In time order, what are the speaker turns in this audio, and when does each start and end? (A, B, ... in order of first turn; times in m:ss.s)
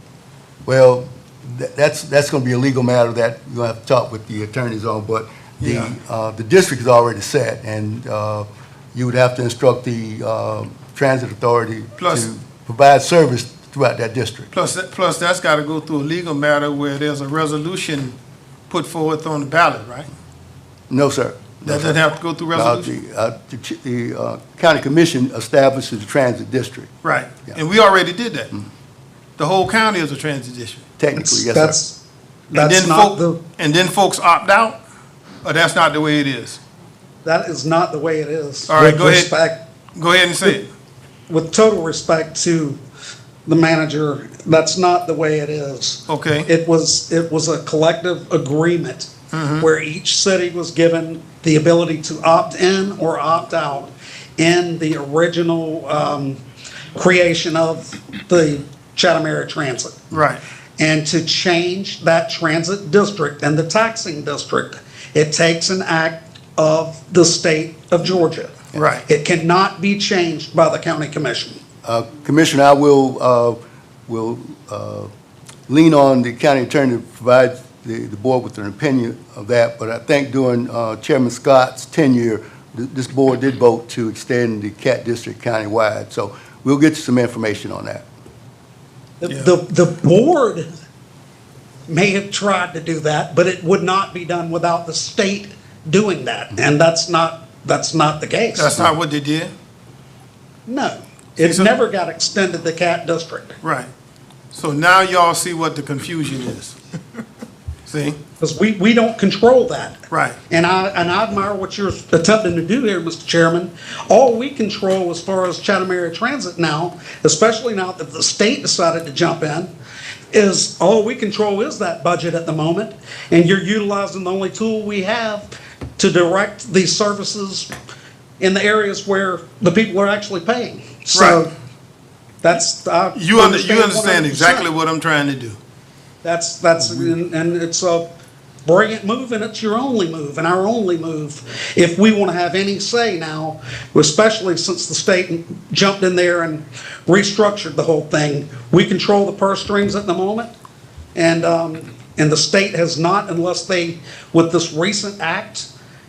0:00.6-0:14.5 A
0:05.6-0:05.9 B
0:12.0-0:12.3 B
0:14.5-0:18.2 B
0:18.7-0:20.1 B
0:20.9-0:22.0 A
0:21.6-0:22.9 B
0:22.5-0:26.9 A
0:27.0-0:28.5 B
0:29.4-0:30.8 B
0:31.0-0:31.8 A
0:31.2-0:32.0 C
0:32.5-0:33.4 C
0:32.5-0:34.8 B
0:35.4-0:36.6 B
0:37.2-0:39.6 C
0:38.7-0:39.3 B
0:40.0-0:40.7 B
0:41.3-0:42.8 C
0:43.4-0:56.4 C
0:46.1-0:46.5 B
0:49.3-0:49.7 B
0:57.0-1:00.1 C
1:00.1-1:00.4 B
1:00.8-1:11.6 C
1:08.7-1:09.0 B
1:11.8-1:15.1 A
1:15.7-1:28.0 A
1:29.2-1:30.7 C
1:31.9-1:38.8 C
1:38.5-1:39.5 B
1:40.7-1:43.6 C
1:41.4-1:41.7 B
1:43.6-1:43.9 B
1:44.5-1:46.8 B
1:47.9-1:48.2 B
1:48.4-1:59.7 C
1:50.1-1:50.4 B
2:00.3-2:07.7 C
2:08.4-2:11.5 C
2:11.1-2:11.4 B
2:12.4-2:14.7 C
2:13.1-2:15.6 B
2:16.2-2:18.1 C
2:18.6-2:30.5 C
2:31.1-2:35.7 C